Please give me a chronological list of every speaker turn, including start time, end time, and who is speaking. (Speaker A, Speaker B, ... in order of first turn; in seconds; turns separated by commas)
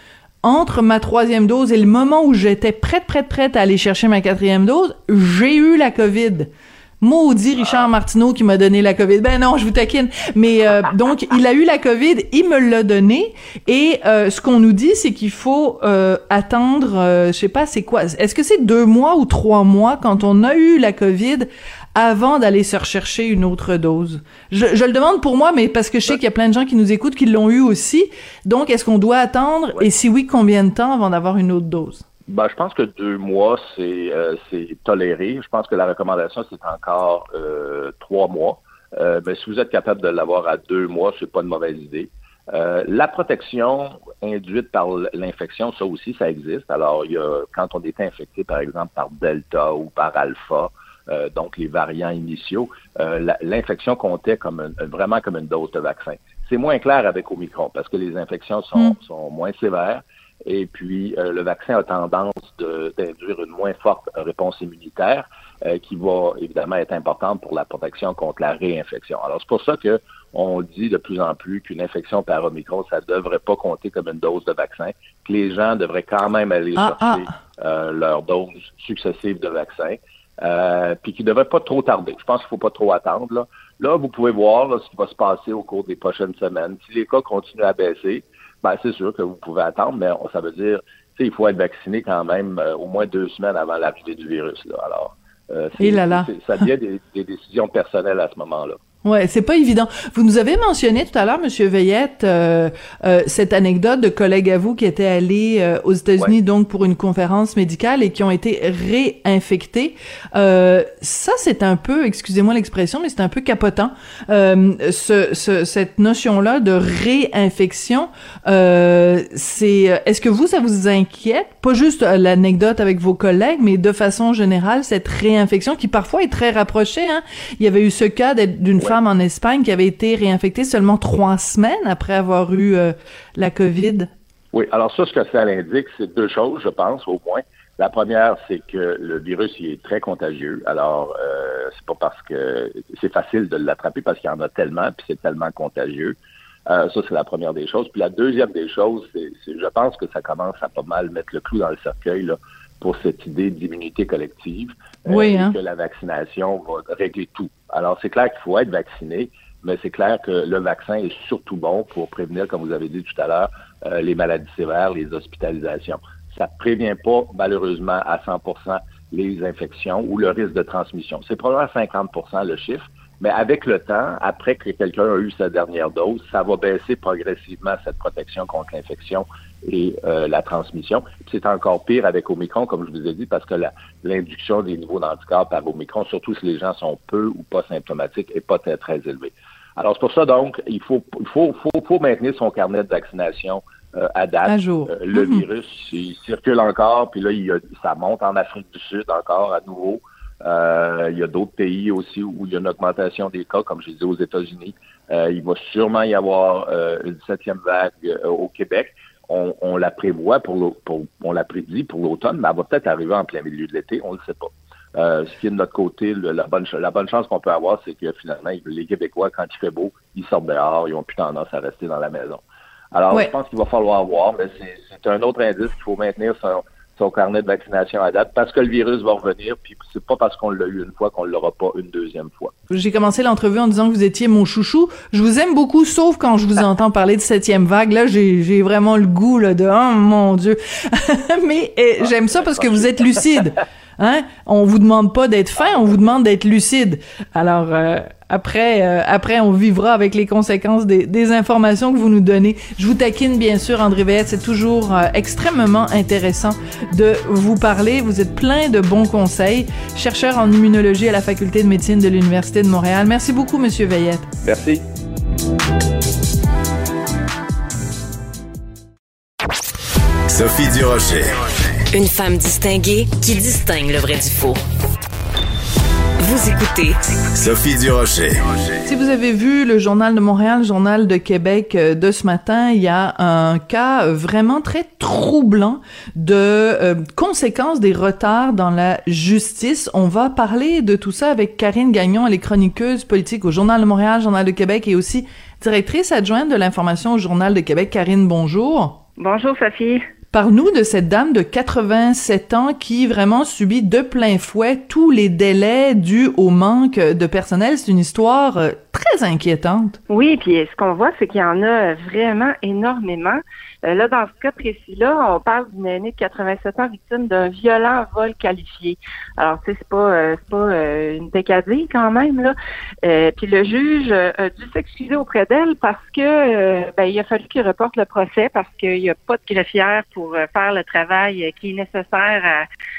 Speaker A: 0.4-32.0, Speaker B: 32.3-98.8, Speaker A: 76.8-77.3, Speaker A: 95.8-96.3, Speaker A: 99.0-134.1, Speaker B: 134.5-146.2, Speaker B: 146.7-222.4, Speaker A: 155.1-155.6, Speaker A: 194.5-195.5, Speaker B: 222.9-232.5, Speaker A: 232.7-264.3, Speaker B: 264.4-264.8, Speaker C: 270.3-271.3, Speaker D: 271.9-274.6, Speaker D: 276.2-277.0, Speaker C: 277.4-278.4, Speaker A: 278.9-299.0, Speaker E: 299.2-300.0, Speaker A: 300.3-310.0, Speaker E: 310.1-332.6